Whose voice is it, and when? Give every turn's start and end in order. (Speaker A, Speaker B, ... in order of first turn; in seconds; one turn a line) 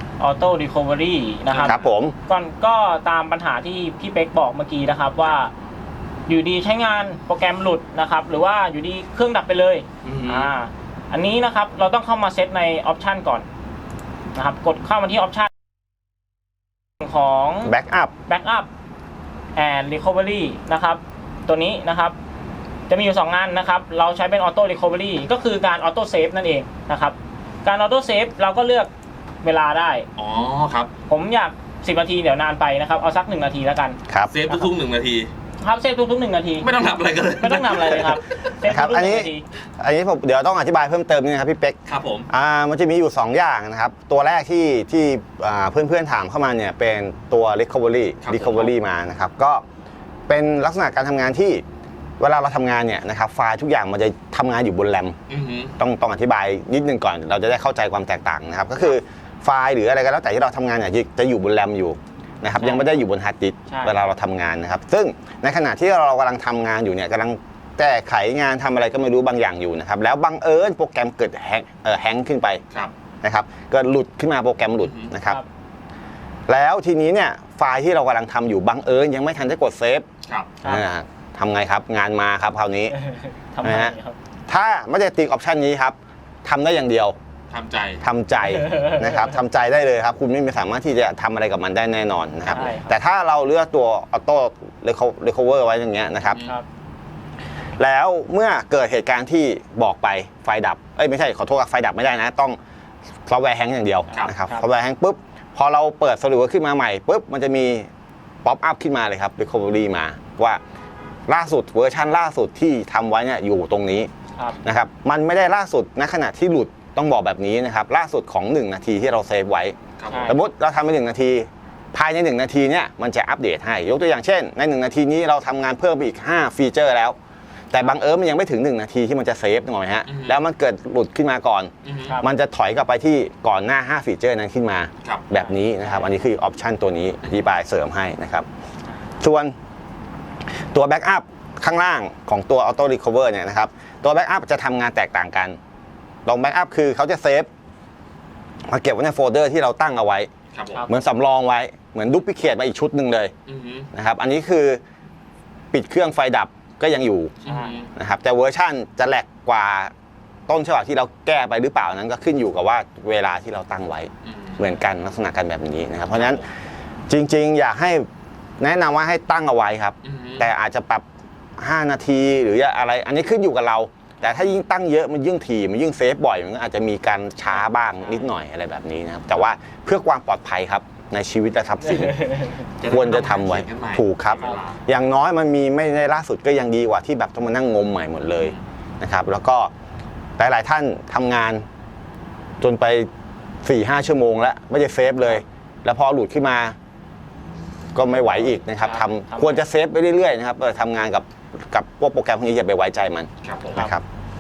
Speaker A: 0.2-5.5
Speaker B: 1.5-1.9
Speaker C: 1.7-2.2
Speaker A: 6.3-13.5
Speaker B: 10.0-10.5
Speaker A: 14.3-15.5
Speaker A: 17.0-17.7
Speaker C: 17.6-18.1
Speaker A: 18.3-18.7
Speaker A: 19.6-22.2
Speaker A: 22.9-28.9
Speaker A: 29.4-30.1
Speaker B: 30.2-30.9
Speaker A: 31.1-34.0
Speaker C: 34.1-34.4
Speaker B: 34.3-35.3
Speaker A: 35.6-36.7
Speaker B: 36.6-38.5
Speaker A: 37.4-39.4
Speaker C: 38.7-41.8
Speaker B: 41.9-42.3
Speaker C: 42.3-49.6
Speaker B: 48.2-48.7
Speaker C: 50.3-51.6
Speaker C: 52.2-55.2
Speaker B: 55.3-55.7
Speaker C: 55.8-72.6
Speaker A: 62.6-63.0
Speaker A: 63.7-64.0
Speaker C: 73.2-75.4
Speaker B: 74.8-75.1
Speaker C: 76.5-80.1
Speaker B: 80.2-80.6
Speaker C: 80.6-83.0
Speaker A: 82.9-84.2
Speaker C: 83.6-84.0
Speaker C: 84.5-87.2
Speaker B: 87.5-88.0
Speaker C: 88.0-96.4
Speaker A: 88.4-89.4
Speaker A: 92.5-93.0
Speaker B: 96.3-96.6
Speaker C: 97.8-102.6
Speaker C: 103.3-107.9
Speaker A: 104.1-104.7
Speaker C: 108.4-110.6
Speaker C: 111.3-114.1
Speaker C: 114.6-127.2
Speaker B: 120.0-120.3
Speaker A: 120.1-120.4
Speaker C: 127.7-138.5
Speaker B: 130.1-130.4
Speaker B: 131.8-132.2
Speaker A: 135.3-136.1
Speaker C: 139.2-139.6
Speaker C: 140.7-145.6
Speaker C: 146.2-147.5
Speaker C: 148.7-150.3
Speaker B: 150.5-150.9
Speaker A: 150.7-151.0
Speaker C: 150.9-153.3
Speaker B: 153.5-153.9
Speaker C: 153.9-154.8
Speaker C: 155.7-157.4
Speaker B: 157.4-157.9
Speaker A: 157.4-157.8
Speaker C: 158.0-159.9
Speaker C: 160.5-166.4
Speaker B: 164.2-164.7
Speaker B: 166.1-166.4
Speaker C: 167.1-168.1
Speaker C: 168.6-171.1
Speaker B: 170.0-170.5
Speaker C: 171.6-182.2
Speaker A: 177.5-178.2
Speaker A: 181.9-182.6
Speaker B: 182.8-184.8
Speaker C: 182.9-189.7
Speaker C: 190.4-191.7
Speaker C: 192.6-193.1
Speaker C: 193.6-196.8
Speaker C: 197.9-204.0
Speaker A: 198.7-199.7
Speaker B: 203.4-203.9